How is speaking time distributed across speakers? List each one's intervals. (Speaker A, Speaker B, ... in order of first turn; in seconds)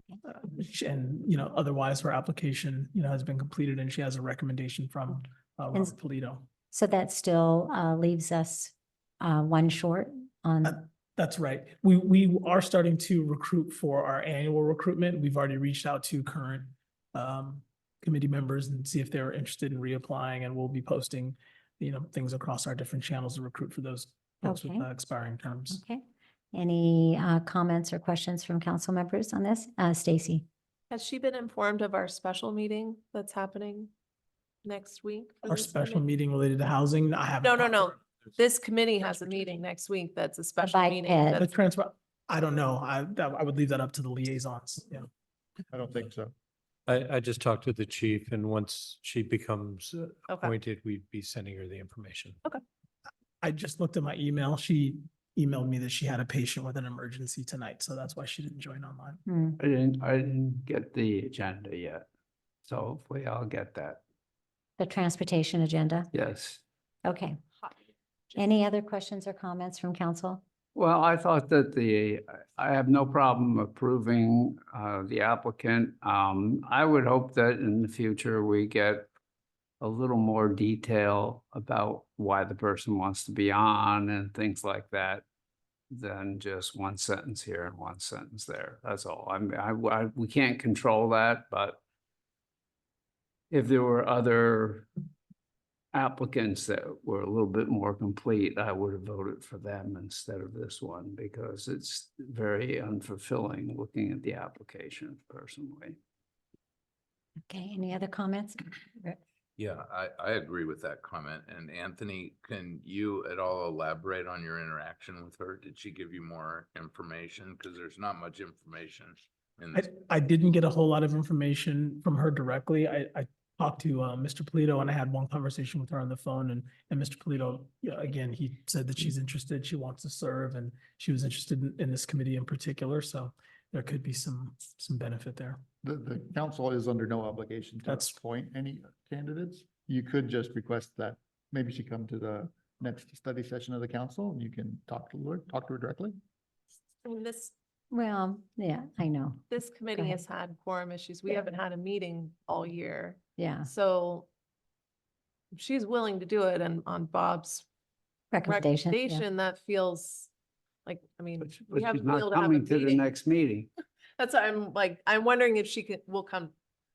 Speaker A: 0.3-6.5, 10.6-25.8, 35.4-38.0, 41.4-45.1, 53.4-59.2, 119.7-135.6, 137.8-138.2
Speaker B: 6.7-10.8, 24.4-24.9, 25.7-30.4, 40.6-41.4, 59.3-59.6, 64.8-66.1, 67.0-67.4, 68.3-70.4, 107.5-109.2, 147.9-150.2, 153.4-153.7, 158.3-159.2
Speaker C: 30.9-33.9, 34.6-36.0, 37.4-41.5, 50.3-50.5, 147.0-147.5, 149.5-154.3, 155.5-157.6, 158.4-160.3, 160.8-163.1, 164.2-166.5
Speaker D: 45.7-46.3, 135.8-146.2
Speaker E: 46.9-52.4
Speaker F: 59.6-62.0, 62.6-64.0, 66.1-66.6, 70.7-79.1, 79.8-85.2, 85.9-91.8, 93.5-94.9, 95.9-106.0, 161.4-163.7
Speaker G: 109.6-119.8